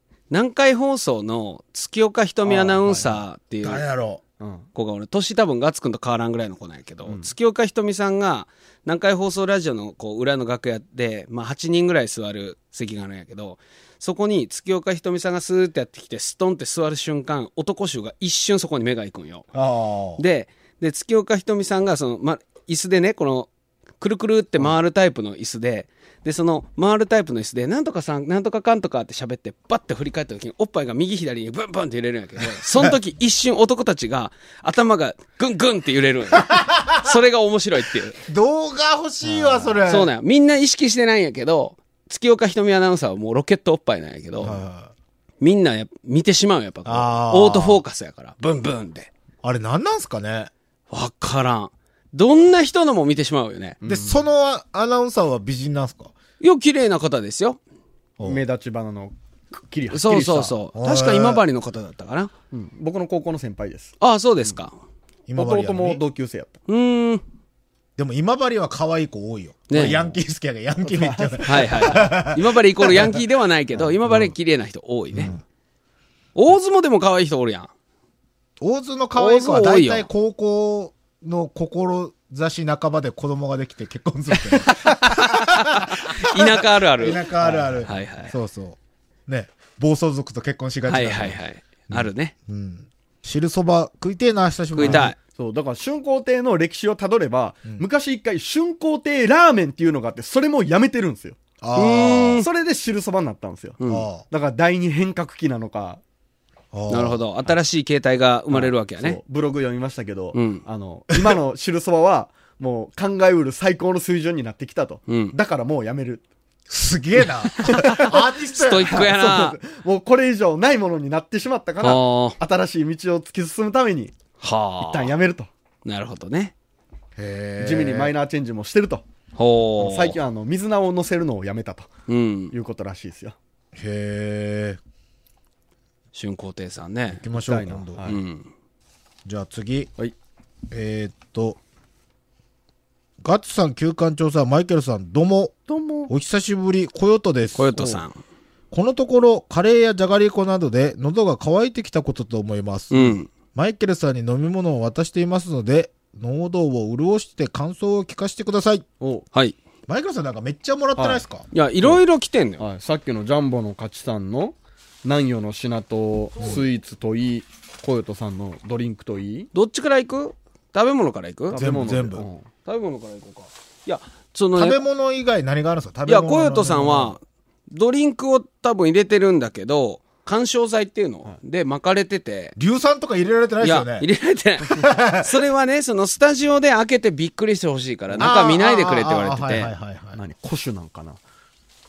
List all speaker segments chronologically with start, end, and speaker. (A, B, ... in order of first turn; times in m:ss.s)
0:00.3-0:03.8 A
0:02.4-0:03.2 B
0:03.6-0:04.2 C
0:04.4-0:04.7 B
0:04.7-0:19.4 A
0:07.0-0:07.3 B
0:19.5-0:20.2 C
0:20.2-0:23.5 A
0:24.0-0:38.2 A
0:32.6-0:32.9 C
0:36.4-0:37.2 C
0:38.2-0:40.1 C
0:39.2-0:39.8 B
0:39.8-0:44.5 A
0:44.4-0:44.9 C
0:45.4-0:49.1 A
0:46.8-0:47.8 C
0:49.4-0:50.5 C
0:50.9-0:53.8 A
0:53.8-0:54.2 B
0:53.8-0:56.1 C
0:56.4-0:57.6 A
0:58.2-1:00.5 B
0:59.9-1:02.3 A
1:00.7-1:01.4 C
1:02.5-1:03.9 B
1:04.0-1:04.7 A
1:05.3-1:06.0 C
1:05.3-1:06.6 B
1:06.7-1:07.2 A
1:08.0-1:13.0 C
1:09.7-1:10.0 A
1:10.8-1:12.0 B
1:11.4-1:15.4 A
1:14.0-1:14.3 C
1:15.1-1:15.4 C
1:16.3-1:17.7 A
1:18.6-1:35.1 C
1:19.2-1:20.1 A
1:24.8-1:27.3 A
1:27.2-1:27.9 B
1:27.8-1:28.3 A
1:30.8-1:32.3 A
1:34.7-1:35.2 A
1:34.8-1:41.4 B
1:41.6-1:42.4 C
1:41.8-1:42.5 A
1:42.3-1:46.0 B
1:43.8-1:44.1 A
1:43.9-1:44.2 C
1:46.7-1:47.2 C
1:46.9-1:49.2 A
1:48.5-1:56.2 B
1:50.3-1:50.6 A
1:55.1-1:55.3 A
1:56.7-1:59.1 C
1:57.6-1:58.2 B
1:57.6-1:59.6 A
1:58.8-2:04.1 B
2:01.8-2:02.4 A
2:04.4-2:05.1 A
2:04.8-2:05.5 B
2:05.8-2:06.5 A
2:07.2-2:08.1 C
2:07.6-2:09.0 B
2:09.4-2:10.2 A
2:09.8-2:11.9 B
2:12.1-2:12.5 A
2:12.5-2:13.4 B
2:13.8-2:14.8 C
2:16.1-2:17.2 A
2:17.1-2:18.0 C
2:17.3-2:18.2 B
2:18.0-2:18.5 A
2:19.2-2:19.9 C
2:20.7-2:21.6 C
2:23.2-2:25.6 C
2:25.7-2:26.1 B
2:26.1-2:28.0 C
2:27.6-2:28.2 A
2:28.7-2:38.8 C
2:32.9-2:33.3 A
2:39.0-2:39.2 B
2:39.9-2:41.4 C
2:41.0-2:41.2 B
2:41.5-2:42.6 A
2:42.6-2:49.5 B
2:49.5-2:51.6 A
2:51.5-2:52.4 B
2:51.5-2:52.2 C
2:52.6-2:54.8 A
2:54.6-2:57.2 C
2:56.1-3:02.6 A
3:02.6-3:04.1 C
3:03.6-3:09.7 A
3:04.7-3:05.3 C
3:08.2-3:10.2 C
3:10.2-3:11.2 B